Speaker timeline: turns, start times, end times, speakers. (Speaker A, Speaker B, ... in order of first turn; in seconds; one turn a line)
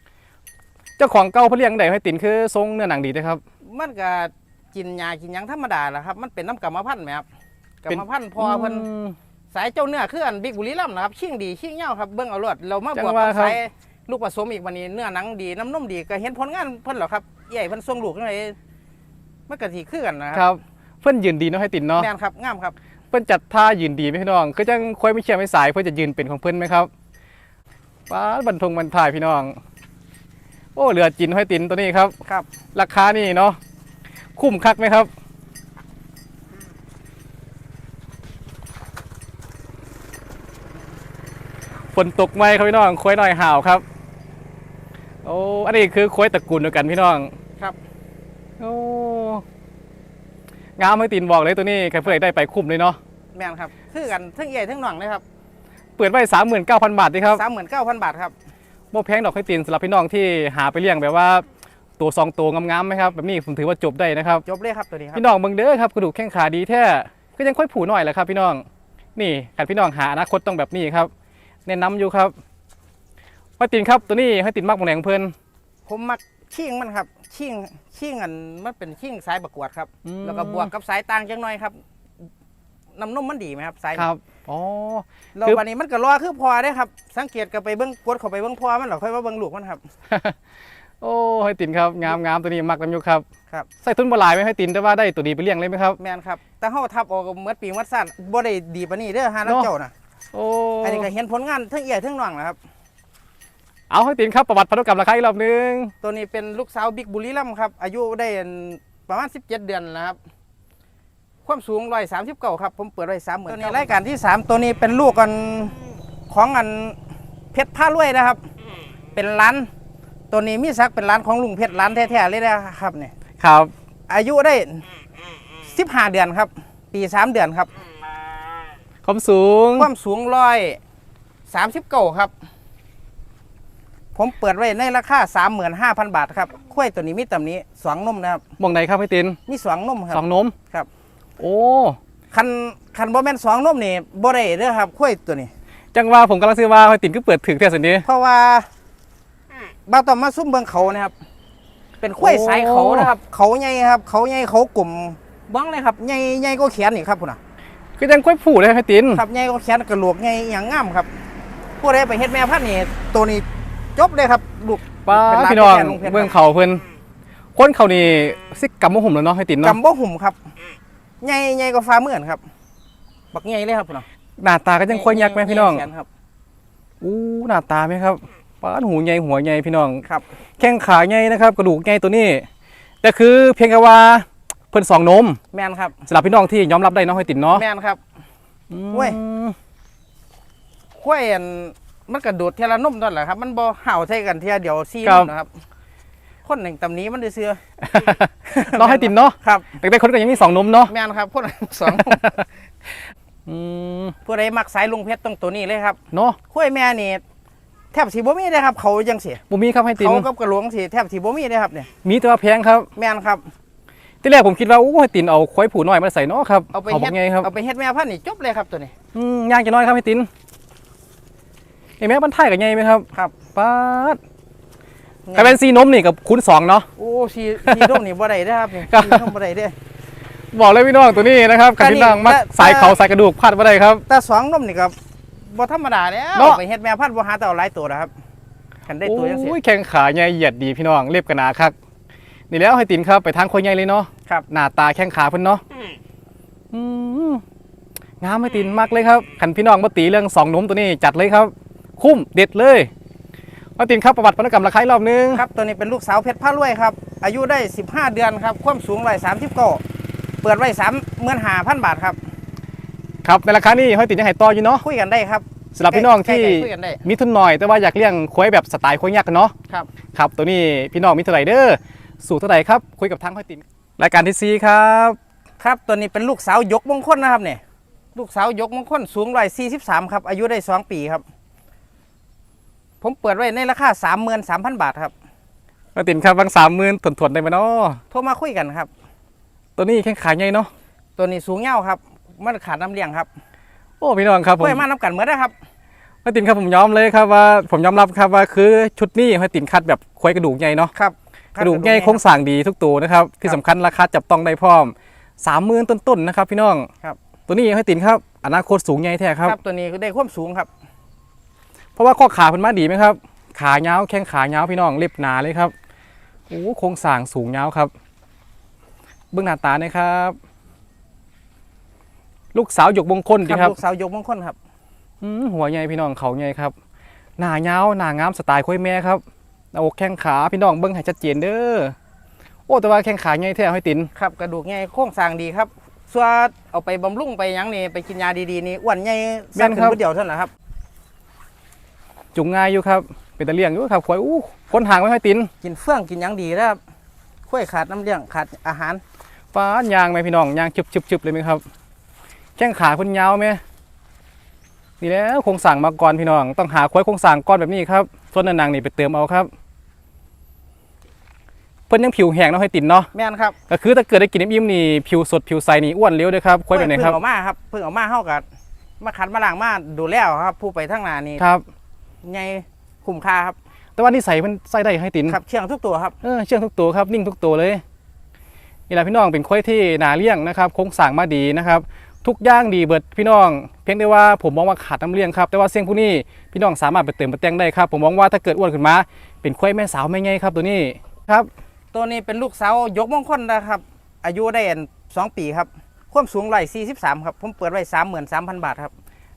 Speaker A: 1.0-3.4
Speaker B: 3.6-7.2
Speaker B: 7.8-8.9
Speaker A: 7.9-9.2
Speaker B: 9.5-18.6
Speaker A: 12.9-13.6
Speaker B: 19.5-20.4
Speaker A: 20.3-22.1
Speaker B: 22.0-22.7
Speaker A: 23.1-26.9
Speaker A: 28.1-29.6
Speaker A: 30.7-32.1
Speaker A: 32.7-33.6
Speaker A: 34.4-35.1
Speaker A: 41.9-43.8
Speaker A: 45.2-47.3
Speaker A: 48.6-49.4
Speaker A: 50.8-53.0
Speaker B: 53.3-55.2
Speaker A: 56.0-57.4
Speaker B: 57.3-58.3
Speaker A: 58.9-61.4
Speaker A: 62.0-64.4
Speaker B: 64.5-65.2
Speaker A: 65.1-68.6
Speaker A: 69.2-71.1
Speaker A: 71.7-72.3
Speaker A: 73.6-75.3
Speaker B: 75.8-81.8
Speaker A: 80.0-80.7
Speaker B: 82.9-84.1
Speaker A: 83.9-85.6
Speaker B: 85.3-89.8
Speaker A: 90.1-90.4
Speaker A: 91.0-93.2
Speaker A: 93.8-96.0
Speaker B: 96.0-99.9
Speaker A: 100.3-101.1
Speaker B: 100.8-102.6
Speaker A: 103.9-105.9
Speaker B: 106.0-110.2
Speaker B: 111.5-115.8
Speaker A: 113.5-113.8
Speaker B: 116.3-117.0
Speaker B: 117.5-118.5
Speaker B: 119.1-119.7
Speaker B: 120.3-123.1
Speaker A: 123.4-123.7
Speaker B: 124.1-124.8
Speaker B: 125.6-127.7
Speaker A: 129.0-129.9
Speaker B: 129.8-130.8
Speaker B: 131.5-132.3
Speaker B: 134.2-138.4
Speaker A: 138.6-139.4
Speaker B: 139.5-140.9
Speaker A: 140.1-140.5
Speaker A: 141.4-142.0
Speaker B: 142.3-145.5
Speaker A: 145.9-148.1
Speaker B: 148.0-148.7
Speaker B: 149.9-151.1
Speaker B: 152.0-157.4
Speaker A: 152.2-153.1
Speaker A: 158.0-159.2
Speaker B: 159.1-161.1
Speaker B: 161.8-166.3
Speaker A: 165.1-166.8
Speaker A: 167.6-169.8
Speaker B: 169.6-170.5
Speaker B: 171.2-172.4
Speaker B: 173.3-174.1
Speaker A: 174.4-175.9
Speaker B: 174.9-176.1
Speaker A: 177.0-180.0
Speaker A: 180.6-182.4
Speaker A: 183.0-185.4
Speaker B: 185.5-186.0
Speaker A: 186.1-187.6
Speaker B: 187.5-188.0
Speaker A: 188.7-189.5
Speaker B: 188.9-189.2
Speaker B: 191.0-195.6
Speaker A: 195.0-195.3
Speaker B: 196.4-197.6
Speaker A: 197.8-200.9
Speaker B: 198.5-199.8
Speaker B: 200.9-202.4
Speaker A: 201.8-202.4
Speaker A: 203.4-204.1
Speaker B: 204.2-207.2
Speaker A: 206.1-206.4
Speaker B: 207.9-209.4
Speaker A: 209.5-210.2
Speaker B: 210.0-211.9
Speaker A: 212.0-212.9
Speaker B: 212.9-213.5
Speaker A: 214.2-217.5
Speaker B: 216.7-218.9
Speaker A: 219.1-220.3
Speaker A: 222.0-224.2
Speaker B: 225.2-225.6
Speaker A: 225.3-226.9
Speaker B: 226.9-229.7
Speaker A: 227.6-228.0
Speaker A: 228.9-229.3
Speaker A: 230.5-234.0
Speaker B: 231.8-233.0
Speaker B: 234.1-234.9
Speaker B: 235.4-238.1
Speaker A: 236.3-236.6
Speaker B: 238.9-239.6
Speaker A: 239.0-241.7
Speaker A: 242.5-245.6
Speaker A: 246.7-247.4
Speaker A: 248.2-252.9
Speaker A: 253.8-255.4
Speaker B: 255.3-259.8
Speaker B: 260.4-262.2
Speaker A: 263.2-264.8
Speaker B: 264.8-267.0
Speaker A: 265.8-269.5
Speaker A: 270.1-275.2
Speaker B: 275.6-277.6
Speaker B: 278.1-281.2
Speaker B: 283.0-285.1
Speaker A: 285.9-288.0
Speaker B: 288.1-288.9
Speaker A: 289.8-290.7
Speaker B: 291.2-293.3
Speaker A: 294.0-294.8
Speaker B: 294.6-295.5
Speaker A: 296.2-300.9
Speaker B: 300.9-302.2
Speaker A: 301.6-306.9
Speaker A: 307.5-309.6
Speaker B: 309.4-310.7
Speaker A: 311.9-315.7
Speaker A: 316.5-317.9
Speaker A: 319.3-320.4
Speaker A: 322.5-323.7
Speaker B: 323.4-324.6
Speaker A: 325.2-326.7
Speaker A: 327.4-329.2
Speaker A: 329.7-331.9
Speaker A: 332.7-334.1
Speaker B: 334.1-340.5
Speaker A: 339.6-340.0
Speaker A: 342.3-345.5
Speaker B: 345.6-346.8
Speaker B: 347.5-349.0
Speaker A: 349.5-351.6
Speaker A: 352.6-353.6
Speaker A: 355.0-359.5
Speaker A: 361.9-363.1
Speaker B: 363.1-363.6
Speaker A: 363.7-367.2
Speaker B: 366.7-368.4
Speaker B: 369.0-371.4
Speaker A: 371.4-371.6
Speaker B: 372.2-373.6
Speaker A: 374.0-375.4
Speaker B: 375.3-376.1
Speaker A: 376.2-377.8
Speaker A: 378.9-391.5
Speaker B: 391.9-398.9